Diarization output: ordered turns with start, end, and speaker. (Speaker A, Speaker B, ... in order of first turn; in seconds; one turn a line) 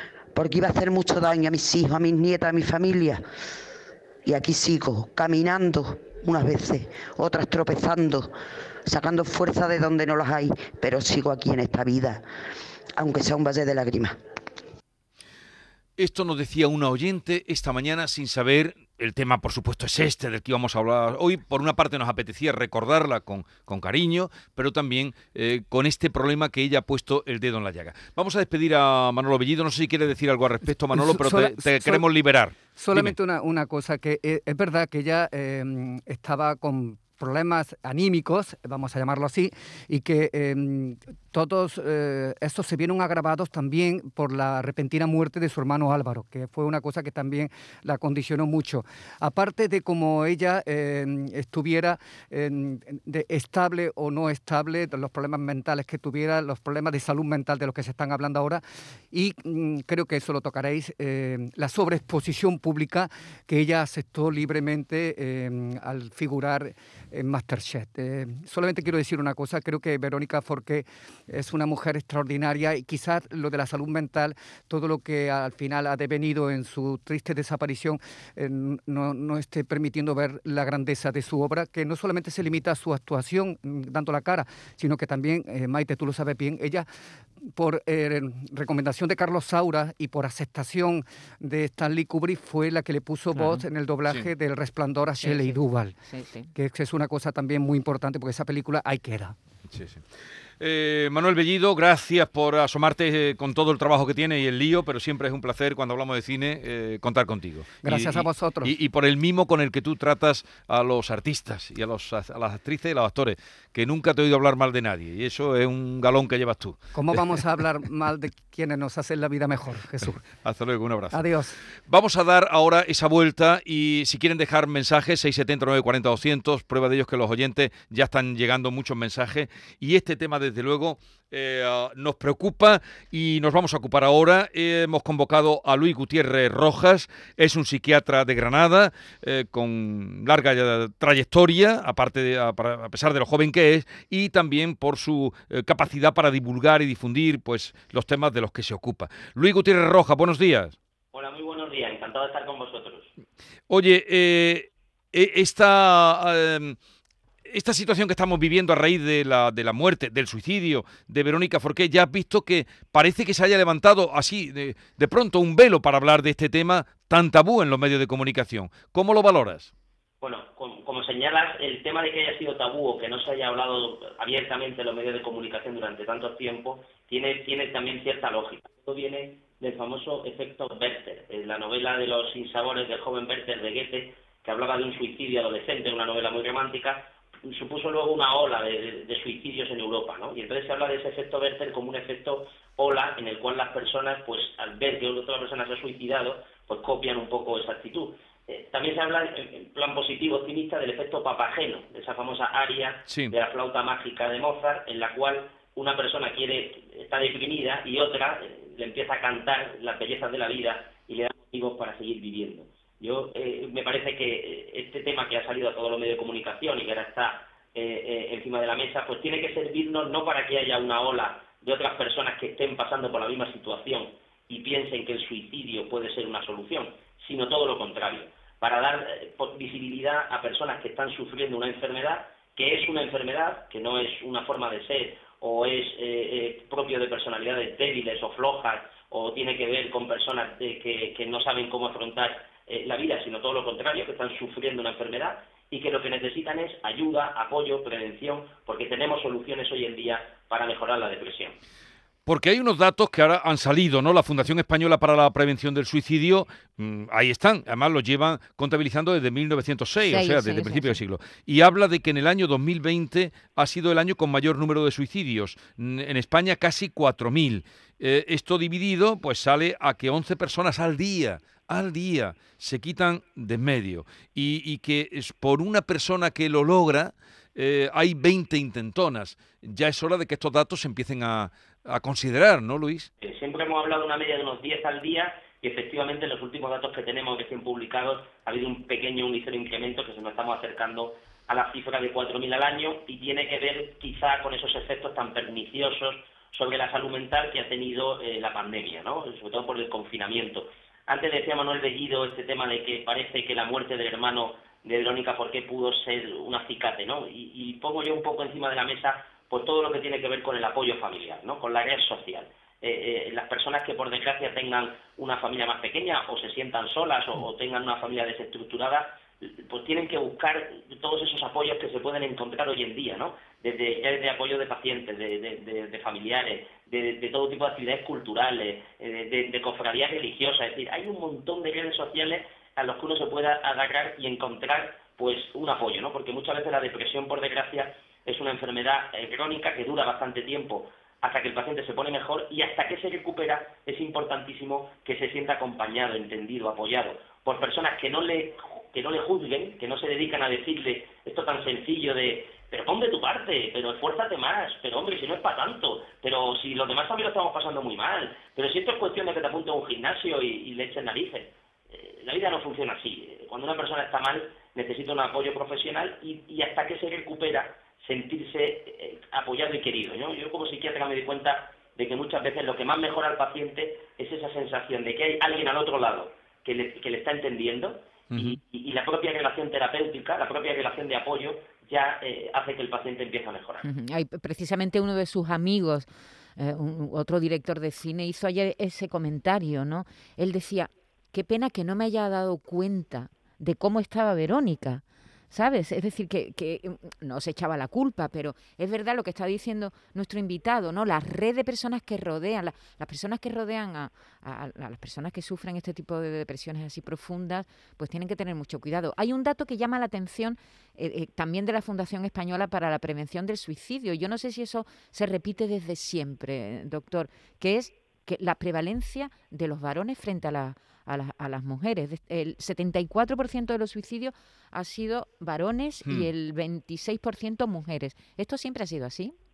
Speaker A: 0.3-3.2
Speaker A: 4.2-8.3
Speaker A: 8.8-12.2
Speaker A: 13.0-14.2
Speaker B: 16.0-33.1
Speaker C: 30.9-32.0
Speaker C: 32.7-86.9
Speaker C: 87.4-96.0
Speaker D: 93.3-93.6
Speaker D: 95.2-96.5
Speaker C: 96.5-99.3
Speaker B: 99.7-100.0
Speaker B: 100.6-116.8
Speaker C: 107.8-108.7
Speaker C: 116.9-120.3
Speaker B: 120.3-121.2
Speaker C: 121.1-121.6
Speaker B: 121.9-150.7
Speaker E: 151.1-153.1
Speaker B: 153.7-156.8
Speaker B: 157.4-169.7
Speaker E: 170.2-251.6
Speaker B: 203.1-203.3
Speaker B: 252.2-283.1
Speaker D: 260.1-261.0
Speaker E: 283.2-383.8
Speaker B: 378.3-378.6
Speaker D: 383.8-429.3